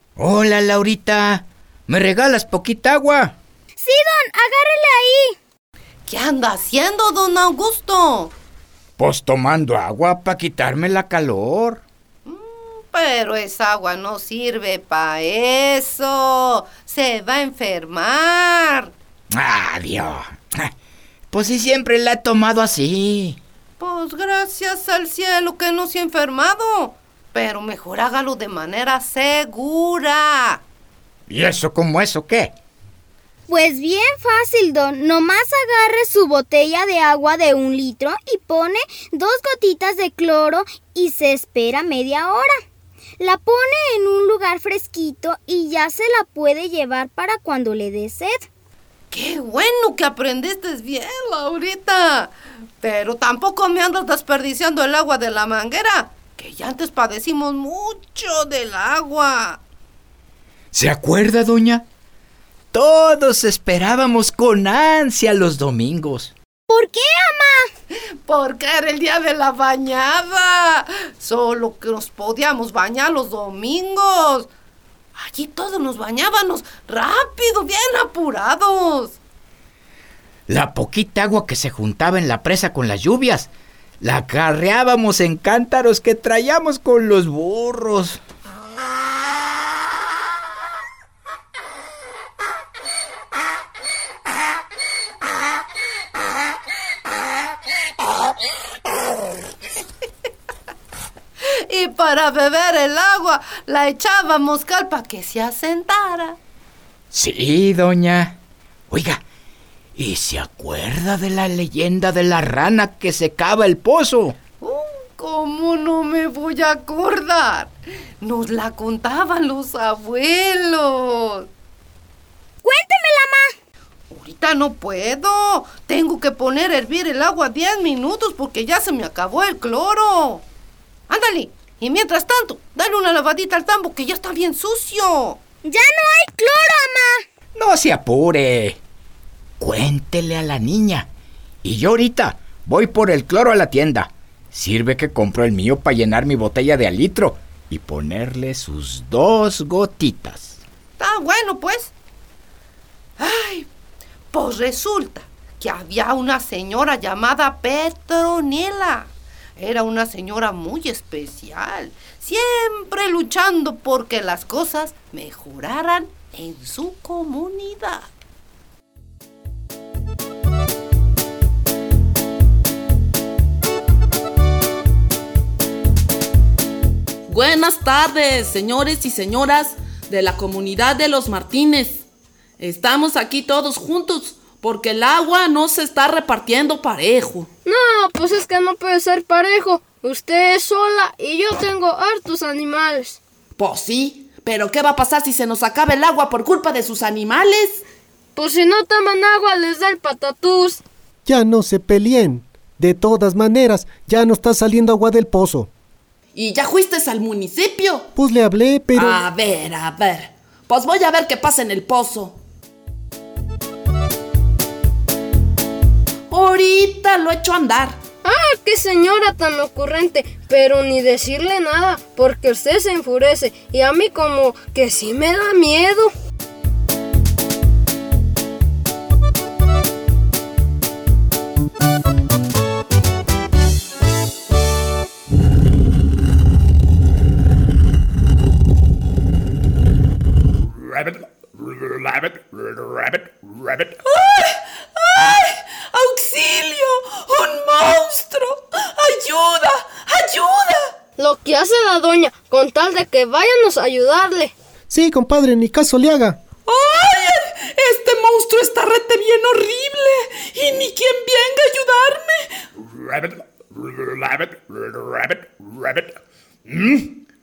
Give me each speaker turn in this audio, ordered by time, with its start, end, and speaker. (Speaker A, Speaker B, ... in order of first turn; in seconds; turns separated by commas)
Speaker A: 0.2-3.3, Speaker B: 3.8-5.4, Speaker C: 6.1-8.3, Speaker A: 9.0-11.8, Speaker C: 12.2-18.9, Speaker A: 19.3-20.7, Speaker A: 21.3-23.4, Speaker C: 23.8-30.6, Speaker A: 31.3-32.5, Speaker B: 33.5-42.6, Speaker B: 43.2-48.5, Speaker C: 49.1-59.6, Speaker A: 60.7-61.8, Speaker A: 62.7-66.3, Speaker B: 66.7-67.7, Speaker C: 68.2-74.5, Speaker C: 75.2-79.2, Speaker A: 80.5-83.5, Speaker A: 84.0-88.2, Speaker C: 101.7-106.4, Speaker A: 107.1-108.4, Speaker A: 108.9-109.2, Speaker A: 110.0-114.4, Speaker C: 114.6-117.7, Speaker C: 118.2-121.5, Speaker B: 122.6-123.5, Speaker C: 124.1-130.4, Speaker C: 131.1-135.4, Speaker B: 135.6-137.2, Speaker A: 137.5-138.8, Speaker A: 139.6-141.1, Speaker A: 141.6-150.6, Speaker C: 151.0-151.9, Speaker C: 153.2-153.7, Speaker C: 154.3-168.1, Speaker D: 177.3-182.1, Speaker D: 182.6-187.5, Speaker E: 187.6-193.2, Speaker D: 193.6-197.8, Speaker E: 198.3-200.8, Speaker F: 201.2-205.7, Speaker D: 206.3-208.1, Speaker F: 208.2-209.2, Speaker D: 208.9-212.4, Speaker D: 216.3-218.0, Speaker E: 218.2-226.1, Speaker G: 240.8-244.0, Speaker D: 244.0-250.9, Speaker E: 251.2-254.5, Speaker F: 254.9-256.4, Speaker D: 256.6-262.5, Speaker G: 263.0-266.1, Speaker G: 266.7-267.2